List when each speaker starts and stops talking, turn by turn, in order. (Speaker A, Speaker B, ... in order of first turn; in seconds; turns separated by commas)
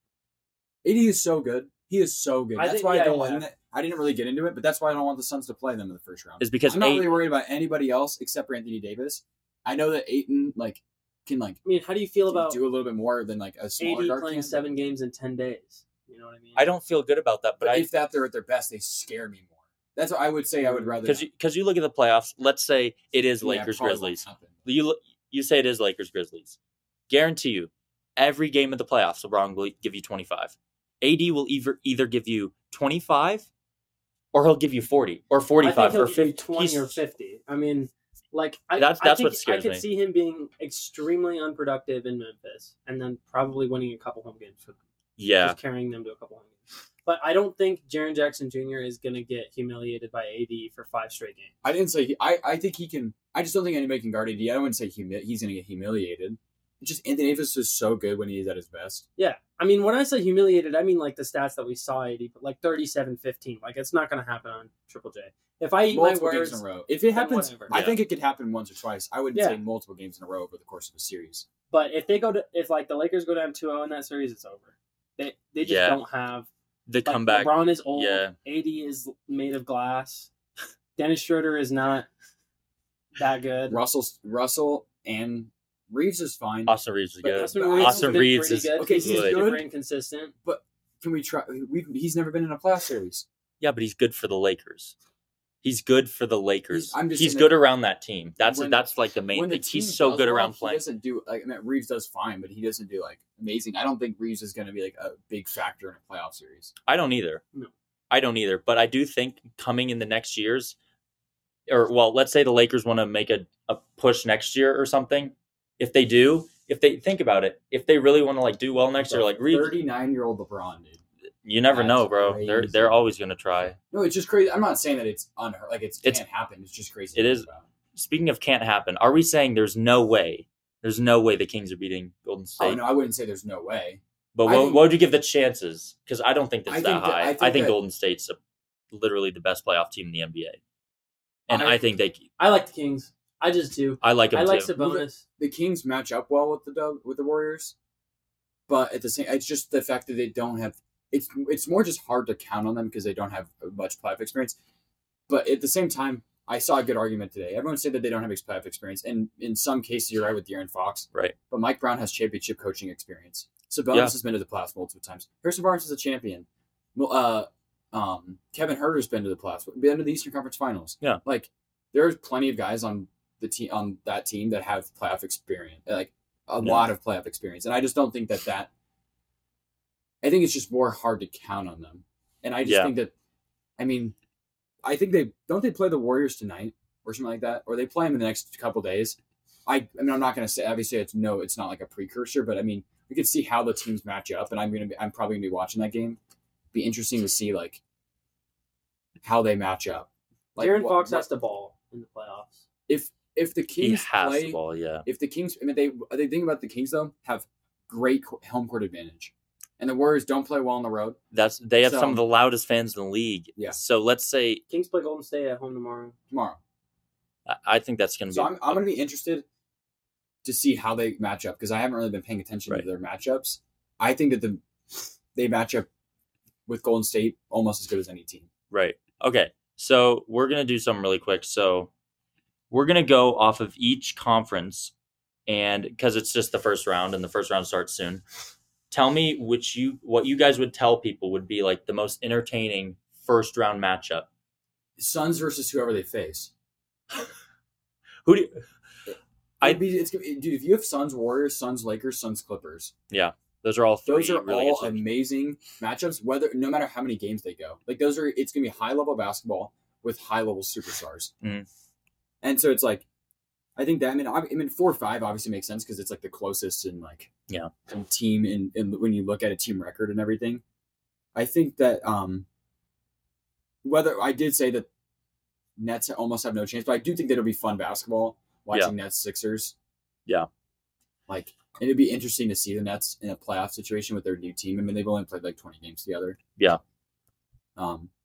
Speaker A: 0.8-11.6, Speaker B: 2.6-3.5, Speaker C: 6.4-7.2, Speaker B: 11.6-12.6, Speaker A: 12.3-14.6, Speaker B: 13.8-16.7, Speaker C: 16.6-17.9, Speaker A: 17.6-21.3, Speaker B: 20.6-21.0, Speaker C: 21.1-26.6, Speaker A: 23.4-24.7, Speaker C: 27.1-33.5, Speaker C: 34.3-37.0, Speaker B: 35.6-44.8, Speaker C: 38.8-39.8, Speaker C: 45.2-45.6, Speaker B: 45.4-51.5, Speaker A: 51.6-59.1, Speaker B: 59.2-67.8, Speaker A: 65.9-71.5, Speaker C: 67.7-68.0, Speaker B: 69.3-69.6, Speaker B: 71.7-76.5, Speaker C: 75.6-76.0, Speaker C: 76.9-78.3, Speaker B: 77.0-80.3, Speaker B: 81.0-82.1, Speaker B: 83.2-83.8, Speaker A: 83.7-89.7, Speaker C: 86.7-89.4, Speaker B: 87.3-90.3, Speaker A: 90.4-93.3, Speaker C: 93.6-95.0, Speaker C: 95.6-100.8, Speaker A: 96.7-97.6, Speaker A: 98.4-106.7, Speaker C: 106.9-107.4, Speaker C: 108.1-110.8, Speaker C: 111.7-119.8, Speaker A: 119.0-121.0, Speaker C: 121.5-123.8, Speaker A: 121.7-123.0, Speaker A: 123.8-127.7, Speaker C: 127.2-132.8, Speaker A: 132.6-134.9, Speaker C: 134.3-138.4, Speaker A: 136.7-137.8, Speaker C: 138.9-140.6, Speaker C: 141.5-142.2, Speaker A: 141.5-141.8, Speaker B: 142.4-145.2, Speaker C: 144.0-144.7, Speaker A: 144.8-147.8, Speaker A: 148.7-154.6, Speaker A: 155.3-178.7, Speaker C: 176.6-176.9, Speaker A: 180.2-183.1, Speaker C: 182.7-182.9, Speaker A: 183.8-184.2, Speaker A: 184.8-196.2, Speaker A: 196.7-197.8, Speaker A: 199.2-201.3, Speaker B: 200.6-202.6, Speaker A: 202.9-211.2, Speaker C: 203.8-205.1, Speaker C: 211.3-214.6, Speaker A: 211.8-212.2, Speaker B: 214.7-216.2, Speaker A: 216.3-216.6, Speaker C: 217.5-218.8, Speaker A: 218.3-219.4, Speaker A: 220.4-225.9, Speaker A: 226.7-228.5, Speaker C: 228.7-231.9, Speaker C: 232.7-234.9, Speaker C: 235.5-238.2, Speaker C: 238.9-244.3, Speaker A: 245.0-246.5, Speaker C: 248.2-248.6, Speaker A: 249.1-252.9, Speaker C: 253.1-255.0, Speaker A: 254.1-261.3, Speaker A: 262.4-263.1, Speaker A: 263.8-267.3, Speaker A: 267.9-270.6, Speaker A: 271.4-272.5, Speaker A: 273.8-274.9, Speaker A: 275.8-279.8, Speaker A: 281.3-286.4, Speaker A: 287.8-288.1